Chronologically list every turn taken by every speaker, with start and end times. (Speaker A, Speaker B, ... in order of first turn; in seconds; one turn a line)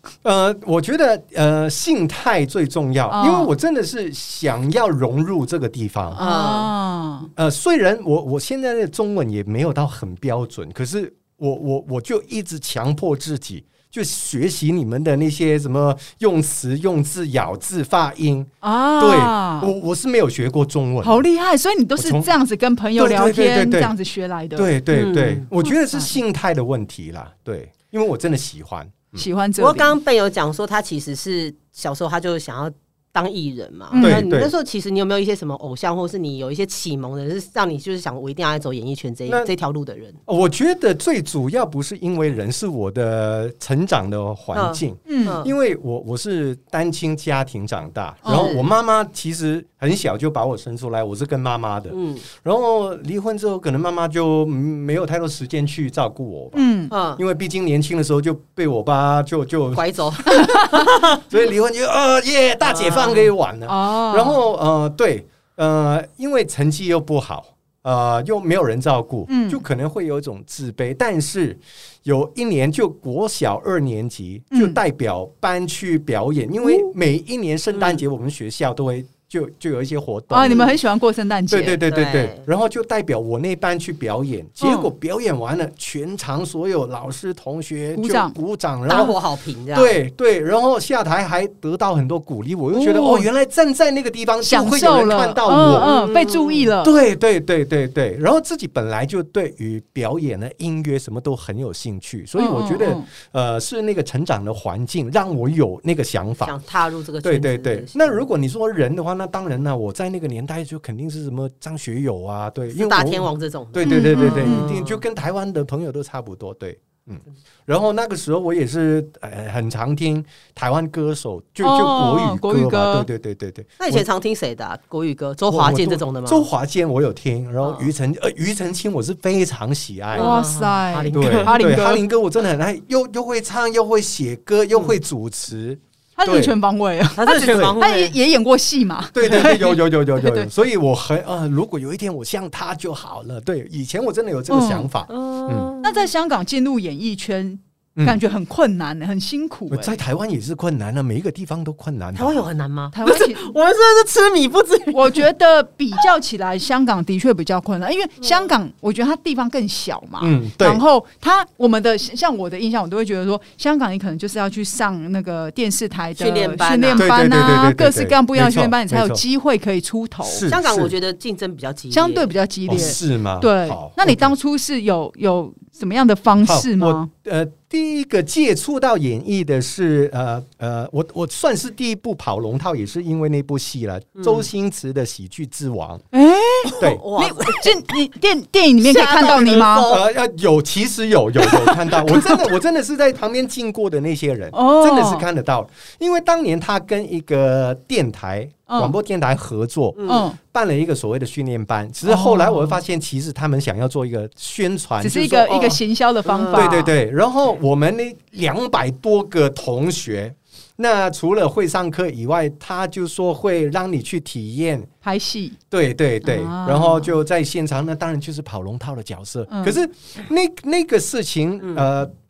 Speaker A: 0.2-6.2
Speaker B: 3.1-3.5
Speaker B: 6.1-7.3
Speaker C: 6.2-6.7
Speaker A: 7.3-21.2
Speaker B: 18.6-19.7
Speaker B: 21.0-24.7
Speaker A: 22.0-22.3
Speaker A: 22.9-23.9
Speaker A: 24.6-29.2
Speaker C: 24.9-25.5
Speaker B: 25.6-26.1
Speaker B: 29.1-29.9
Speaker C: 29.6-40.2
Speaker B: 33.9-34.2
Speaker A: 34.0-34.5
Speaker A: 40.3-60.4
Speaker C: 44.5-45.5
Speaker B: 45.1-45.4
Speaker B: 48.2-48.5
Speaker C: 48.3-48.6
Speaker C: 51.9-52.2
Speaker B: 56.5-56.9
Speaker C: 56.9-57.2
Speaker C: 59.7-61.2
Speaker B: 60.3-60.6
Speaker A: 61.1-80.8
Speaker C: 62.6-63.3
Speaker B: 63.7-64.4
Speaker B: 69.3-69.6
Speaker B: 74.5-74.8
Speaker C: 77.7-78.0
Speaker B: 80.3-81.8
Speaker A: 81.5-89.2
Speaker C: 81.8-82.4
Speaker B: 84.6-84.9
Speaker B: 87.9-88.3
Speaker C: 88.9-90.0
Speaker A: 89.7-96.0
Speaker B: 92.7-93.3
Speaker B: 94.4-96.9
Speaker C: 95.7-96.7
Speaker A: 96.8-106.5
Speaker B: 102.4-103.0
Speaker C: 106.4-108.2
Speaker A: 107.2-124.0
Speaker C: 112.7-115.0
Speaker B: 113.8-114.7
Speaker B: 121.6-123.1
Speaker C: 123.8-126.5
Speaker A: 125.5-130.4
Speaker C: 127.6-127.9
Speaker C: 130.1-131.6
Speaker B: 130.2-132.0
Speaker A: 131.1-136.6
Speaker B: 136.2-140.5
Speaker C: 137.2-138.2
Speaker A: 137.4-137.8
Speaker A: 139.1-145.7
Speaker B: 144.5-144.9
Speaker C: 145.1-146.1
Speaker B: 145.8-149.9
Speaker A: 147.9-148.2
Speaker A: 149.7-152.5
Speaker C: 152.1-155.2
Speaker B: 152.9-153.5
Speaker B: 154.9-170.4
Speaker A: 160.2-160.8
Speaker C: 166.2-167.1
Speaker A: 166.9-169.2
Speaker A: 170.2-170.9
Speaker C: 170.5-172.3
Speaker B: 171.9-177.1
Speaker A: 172.7-174.3
Speaker A: 176.4-186.0
Speaker C: 184.2-184.5
Speaker B: 186.1-189.9
Speaker C: 186.7-187.8
Speaker C: 188.8-190.0
Speaker A: 189.8-205.8
Speaker B: 191.9-192.3
Speaker B: 194.5-195.2
Speaker B: 198.7-198.9
Speaker C: 199.9-200.2
Speaker B: 200.1-200.4
Speaker B: 202.0-202.8
Speaker B: 205.0-206.9
Speaker C: 206.2-206.8
Speaker A: 206.5-214.9
Speaker B: 215.0-215.6
Speaker A: 215.7-222.1
Speaker B: 216.2-217.2
Speaker B: 219.5-219.8